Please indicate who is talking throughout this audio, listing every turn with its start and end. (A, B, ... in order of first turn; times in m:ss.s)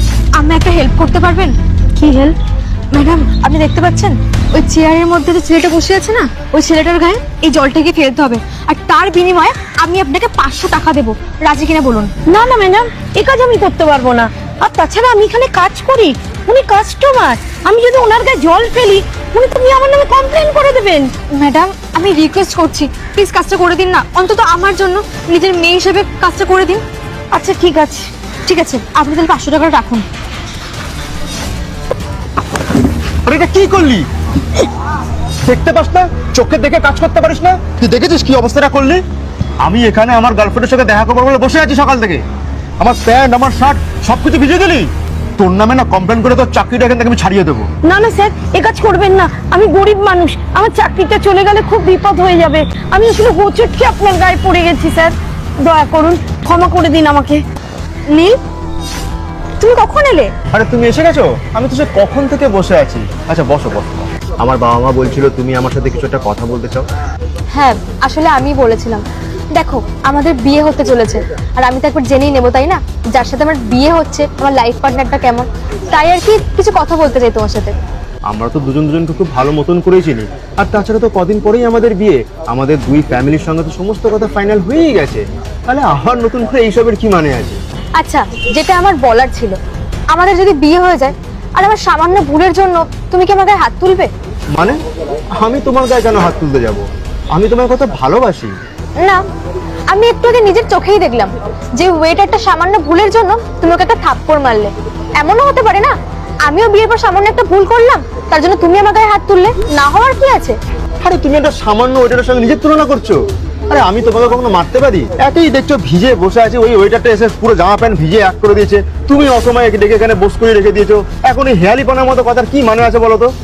0:00.3-0:01.5 A
0:02.0-0:02.3 B
0:02.9-0:12.1 A
0:12.2-0:21.1 B
0:21.2-0:26.8 A
0:27.3-0:28.1 B
0:28.4-0:30.0 A
0:33.2-0:34.1 C
0:35.4-0:39.0 C
0:39.6-0:42.2 C
0:42.8-0:47.7 C
0:47.8-0:57.4 B
0:59.6-1:00.3 B
1:00.5-1:06.8 C
1:07.5-1:17.7 A
1:18.3-1:27.6 C
1:28.0-1:29.6 A
1:30.1-1:34.1 A
1:35.4-1:38.5 C
1:39.9-1:45.9 A
1:46.4-1:50.6 A
1:51.0-1:53.2 C
1:53.7-2:03.3 C